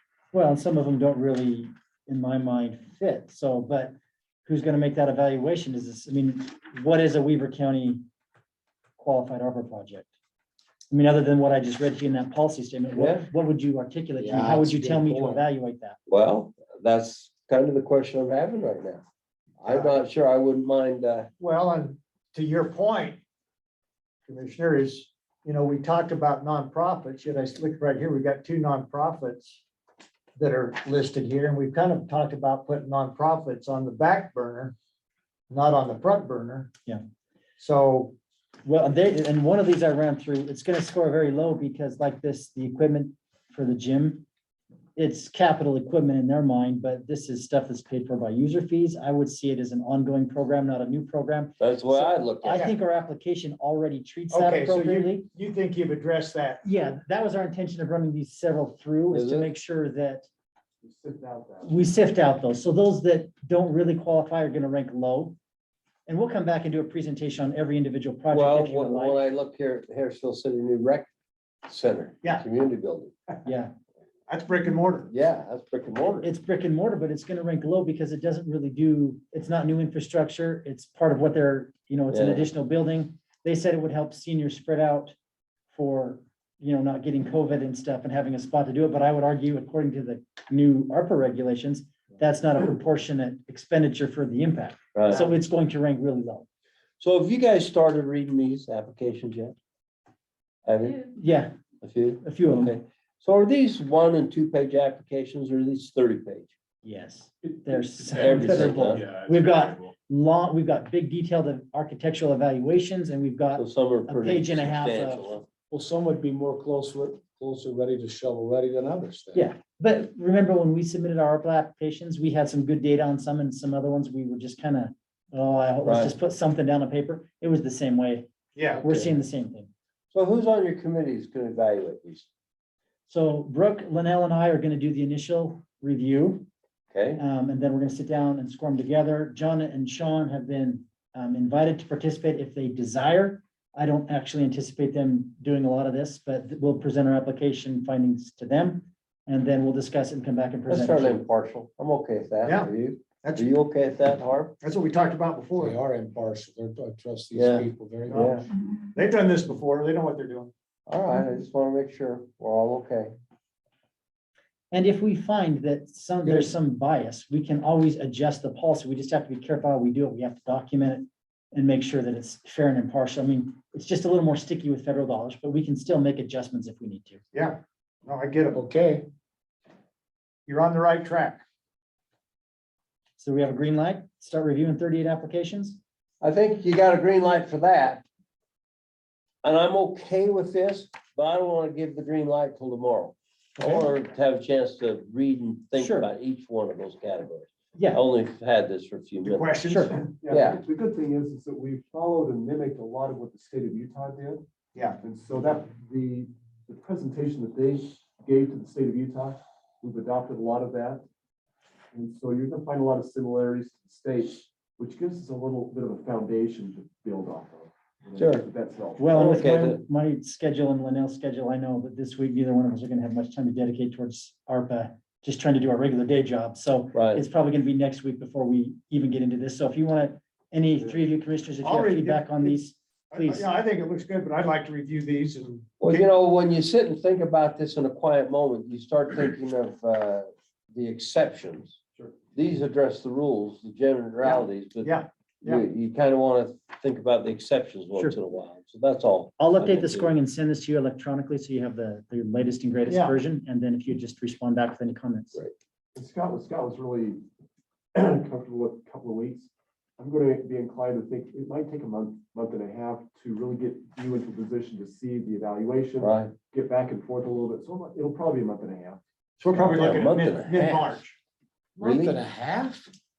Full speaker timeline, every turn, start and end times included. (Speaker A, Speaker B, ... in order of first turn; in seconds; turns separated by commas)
Speaker A: 0.3-3.9, Speaker A: 4.5-8.0, Speaker A: 9.0-10.1, Speaker A: 10.9-16.0, Speaker B: 12.9-13.3, Speaker C: 14.2-15.4, Speaker B: 16.1-19.0, Speaker B: 19.6-21.3, Speaker D: 19.7-19.9, Speaker D: 21.4-23.2, Speaker D: 24.2-29.6, Speaker D: 30.4-34.7, Speaker D: 35.5-36.7, Speaker D: 37.6-38.1, Speaker A: 38.6-44.2, Speaker A: 45.0-55.3, Speaker B: 51.6-52.7, Speaker D: 54.3-56.6, Speaker A: 56.6-60.3, Speaker B: 59.1-59.5, Speaker E: 60.8-61.8, Speaker A: 61.6-65.3, Speaker A: 66.1-69.2, Speaker B: 68.3-71.1, Speaker B: 71.7-73.1, Speaker A: 73.4-73.7, Speaker D: 74.3-75.1, Speaker B: 75.1-76.3, Speaker A: 76.2-85.1, Speaker B: 82.1-82.5, Speaker A: 85.7-96.4, Speaker B: 94.9-95.3, Speaker B: 97.0-99.5, Speaker B: 100.7-101.1, Speaker A: 101.1-101.5, Speaker B: 101.8-106.5, Speaker A: 102.2-102.7, Speaker A: 106.8-115.4, Speaker B: 108.1-109.0, Speaker B: 113.5-115.5, Speaker C: 115.7-119.5, Speaker A: 119.3-129.7, Speaker B: 125.8-126.1, Speaker C: 128.8-129.1, Speaker B: 130.1-132.3, Speaker A: 133.1-136.5, Speaker B: 136.9-137.2, Speaker A: 137.2-151.2, Speaker B: 150.7-154.5, Speaker D: 152.4-152.7, Speaker D: 153.2-153.5, Speaker D: 154.6-155.8, Speaker C: 155.5-158.4, Speaker B: 157.3-158.4, Speaker D: 158.1-158.3, Speaker D: 158.9-160.5, Speaker B: 160.9-163.1, Speaker A: 164.7-177.2, Speaker C: 166.2-166.5, Speaker D: 177.3-178.6, Speaker C: 178.5-179.1, Speaker D: 180.5-181.4, Speaker A: 183.2-185.8, Speaker B: 186.2-188.0, Speaker B: 189.4-199.5, Speaker A: 195.7-196.1, Speaker A: 197.8-198.0, Speaker D: 199.2-199.9, Speaker A: 199.7-199.9, Speaker E: 199.9-204.4, Speaker B: 200.3-200.6, Speaker E: 204.9-211.0, Speaker E: 211.9-219.1, Speaker B: 218.2-218.4, Speaker A: 219.0-233.5, Speaker B: 219.1-219.8, Speaker B: 226.9-227.2, Speaker D: 231.6-232.6, Speaker D: 233.1-236.0, Speaker B: 235.8-241.8, Speaker B: 242.3-250.1, Speaker D: 244.2-245.6, Speaker A: 249.4-255.4, Speaker D: 252.9-253.1, Speaker E: 255.9-257.2, Speaker E: 257.9-269.0, Speaker B: 266.0-266.3, Speaker B: 269.4-271.0, Speaker D: 269.4-271.1, Speaker E: 269.9-270.2, Speaker C: 271.8-272.9, Speaker B: 271.8-272.2